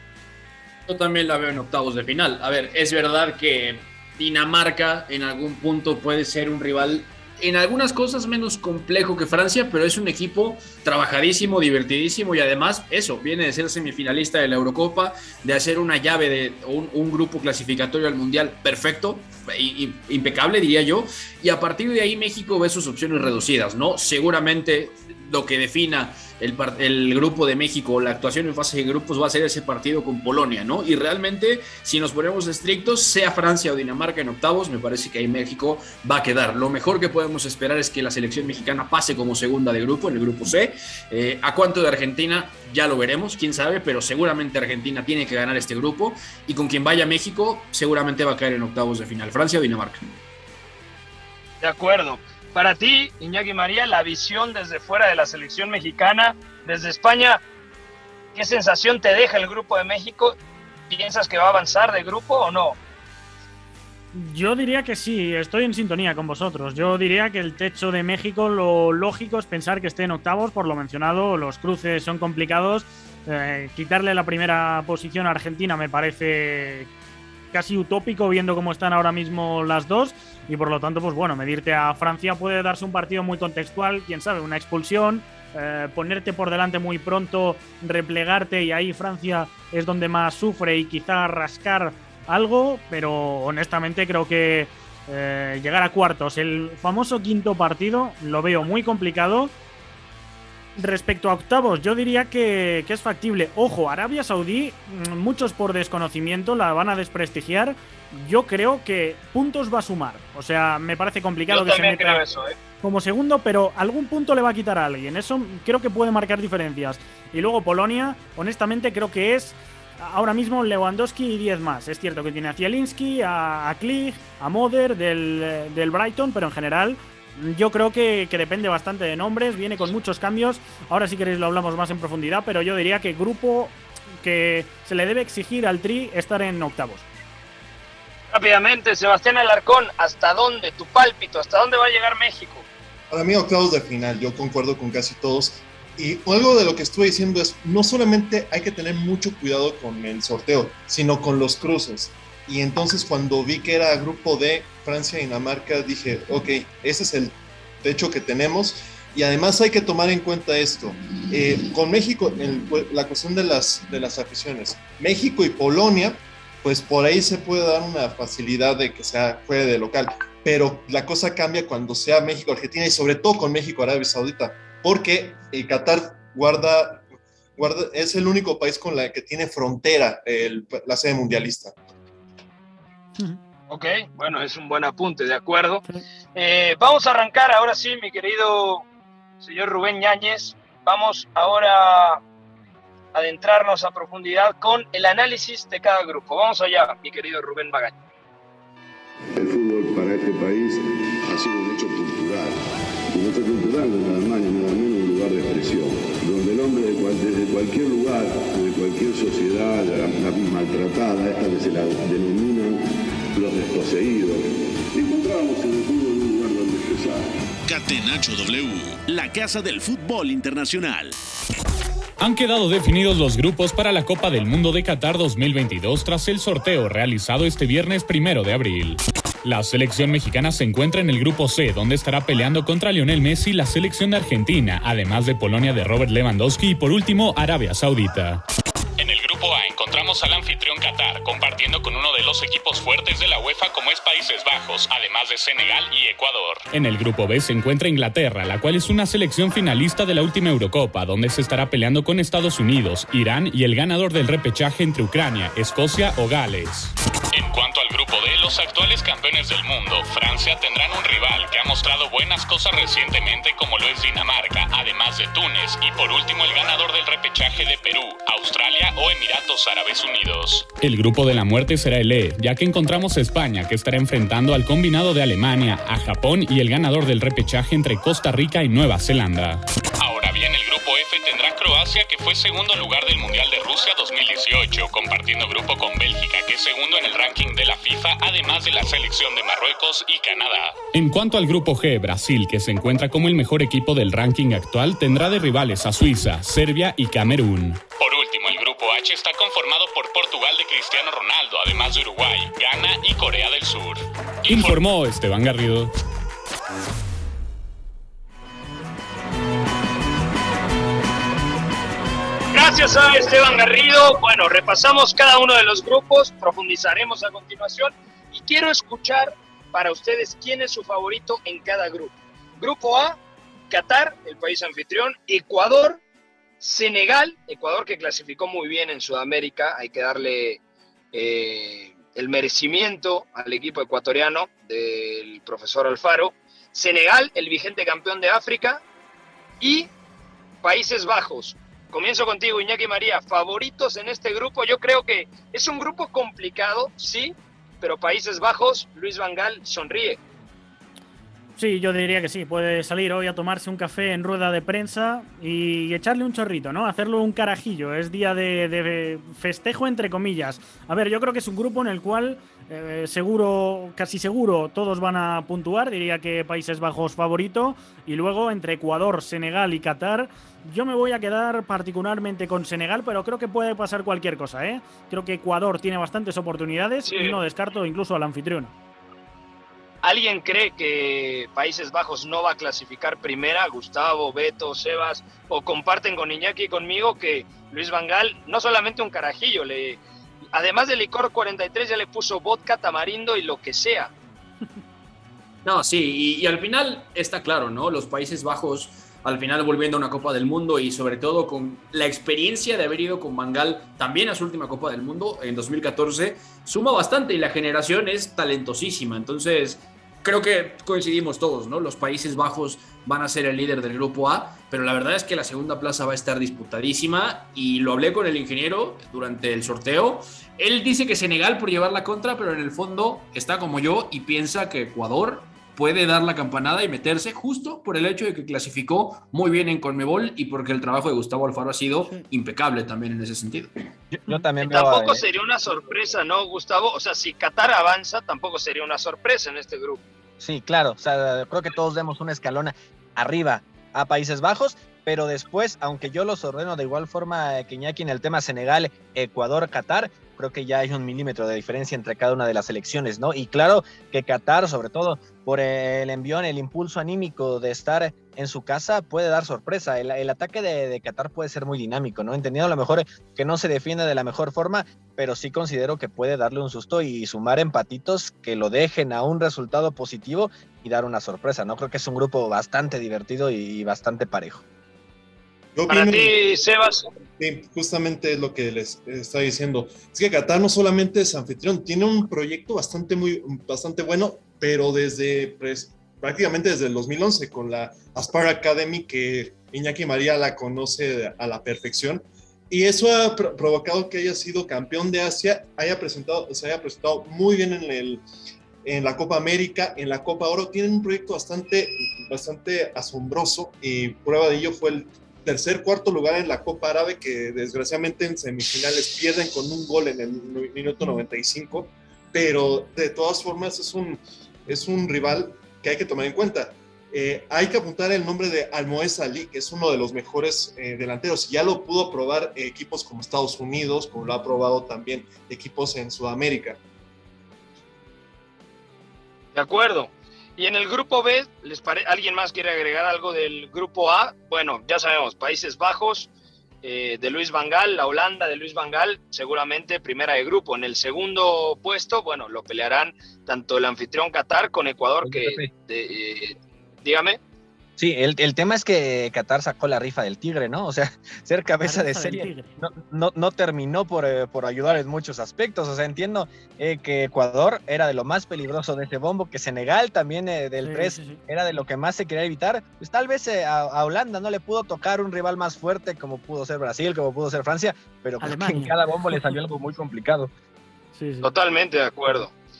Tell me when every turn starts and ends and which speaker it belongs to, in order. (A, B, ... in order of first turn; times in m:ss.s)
0:00.9-0:50.1 A
0:51.6-0:57.4 B
0:58.3-1:00.4 B
1:00.9-1:02.8 B
1:04.1-1:16.9 C
1:17.5-1:39.5 C
1:40.8-1:52.2 C
1:51.5-1:52.5 B
1:52.8-2:17.0 C
2:18.3-2:22.7 B
2:23.1-2:57.0 D
2:57.6-3:01.7 D
3:03.7-3:05.8 B
3:06.3-3:08.8 B
3:09.4-3:12.2 B
3:13.1-3:18.0 B
3:19.3-3:22.6 E
3:23.1-3:32.8 E
3:33.3-3:37.3 E
3:37.6-3:41.2 F
3:42.2-3:58.4 G
3:59.0-5:05.9 G
5:12.5-5:23.2 B
5:23.7-5:26.0 B
5:26.6-5:30.6 B
5:31.1-5:38.8 B
5:39.6-5:39.9 B
5:40.6-5:50.2 B
5:51.6-6:18.7 C
6:17.0-6:17.4 B
6:20.0-6:30.0 B
6:30.5-6:34.1 B
6:35.6-7:13.7 A
7:14.1-7:15.2 H
7:14.6-7:20.0 B
7:20.4-7:54.6 H
7:55.7-7:56.4 D
7:55.9-7:57.1 B
7:57.4-8:18.2 D
8:18.8-8:46.8 D
8:49.5-8:56.3 B
8:56.8-9:07.4 B
9:05.2-9:05.7 H
9:08.0-9:30.5 H
9:11.8-9:12.8 C
9:20.8-9:21.4 C
9:28.4-9:29.4 C
9:31.1-9:31.5 C
9:31.4-9:32.5 B